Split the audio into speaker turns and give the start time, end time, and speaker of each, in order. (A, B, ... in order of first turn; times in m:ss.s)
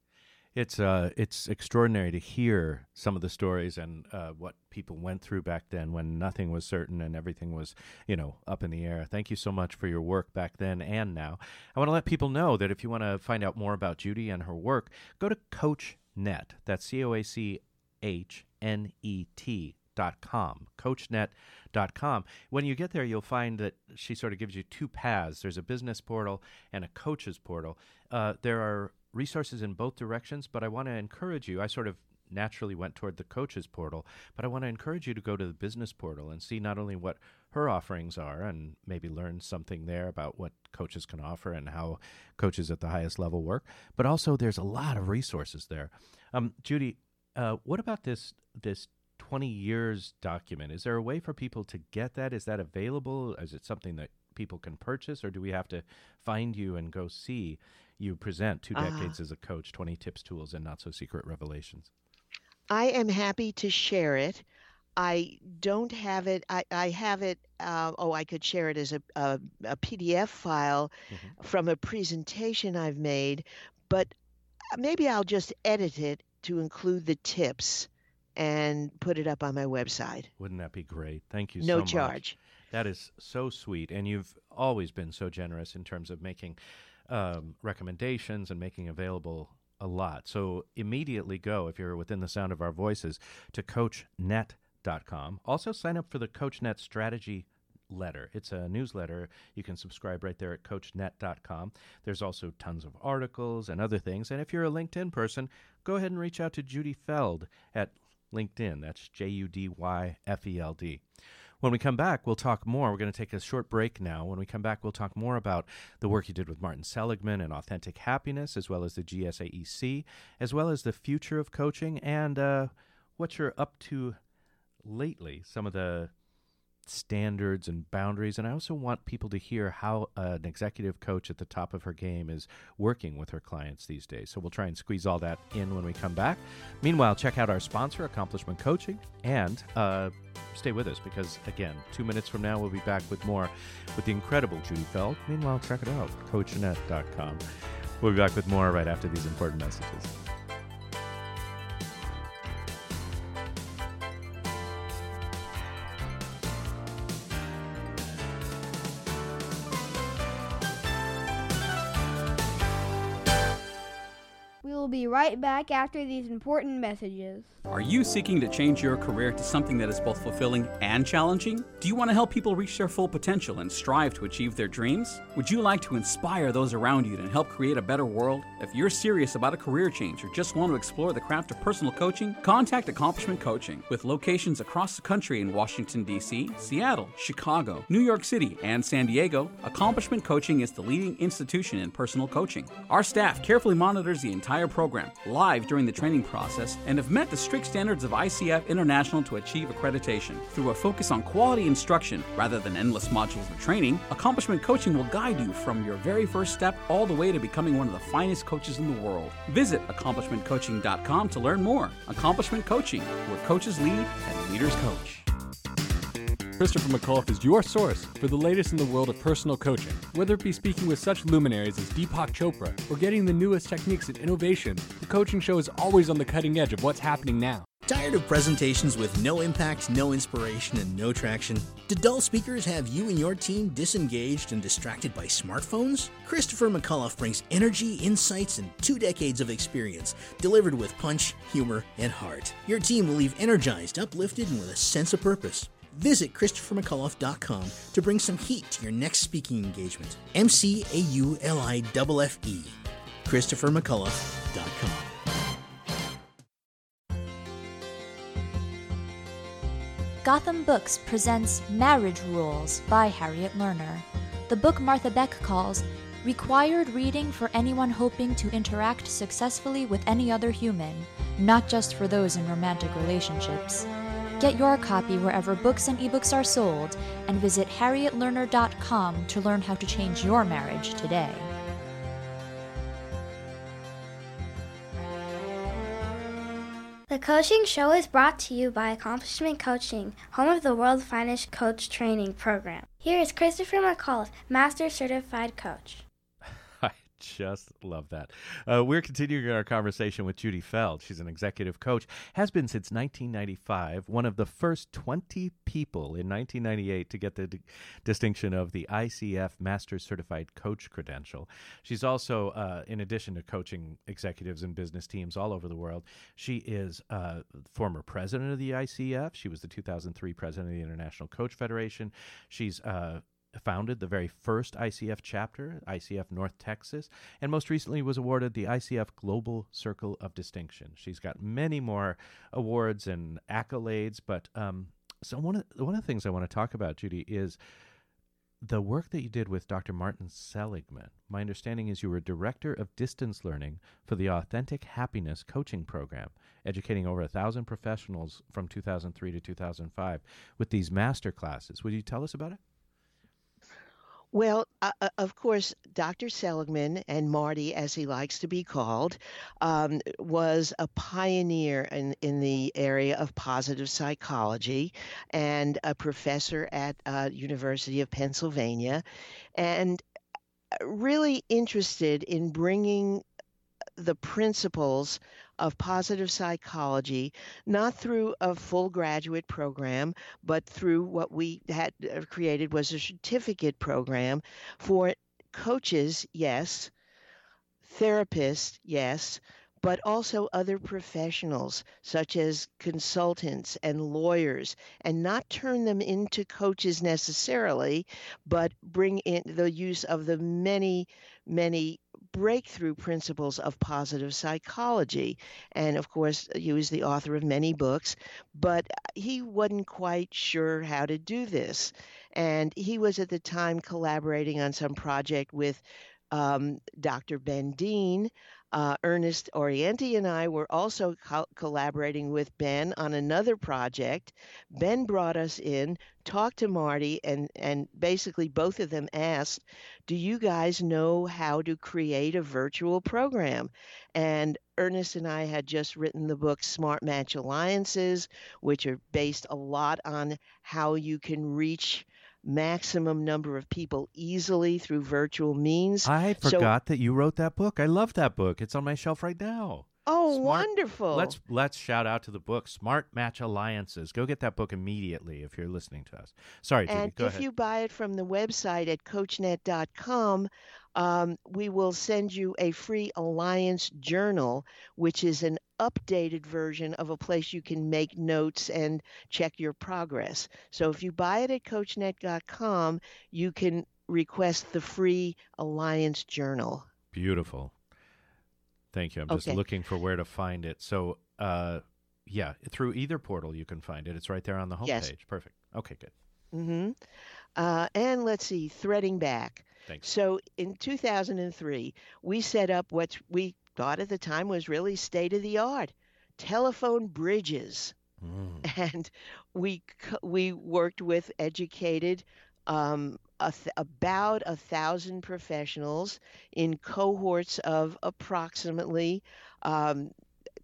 0:00.6-1:01.9 A
0:58.8-0:59.2 B
1:02.7-1:04.4 B
1:05.0-1:14.1 B
1:14.7-1:20.3 B
1:20.4-1:26.6 A
1:21.6-1:22.4 B
1:27.1-1:51.0 A
1:51.6-2:04.2 A
2:04.8-2:06.1 A
2:06.9-2:27.4 A
2:28.0-2:30.1 A
2:44.6-2:47.5 C
2:47.7-3:35.3 D
3:36.6-3:47.7 E
3:47.9-4:15.1 F
4:20.2-4:33.9 G
4:34.4-4:41.5 G
4:47.1-4:56.0 H
4:56.6-5:37.6 A
5:38.6-5:52.6 A
5:54.3-6:09.0 B
6:09.6-6:10.0 B
6:10.8-6:13.2 B
6:14.0-6:26.9 B
6:27.8-7:26.7 B
7:26.0-7:37.4 A
7:30.1-7:31.4 B
7:36.9-7:56.9 B
7:57.1-7:57.7 A
7:58.9-8:06.1 A
7:59.3-7:59.6 B
8:04.8-8:05.1 B
8:06.5-8:07.0 B
8:07.6-8:18.0 B
8:18.2-8:18.7 A
8:18.6-8:30.1 B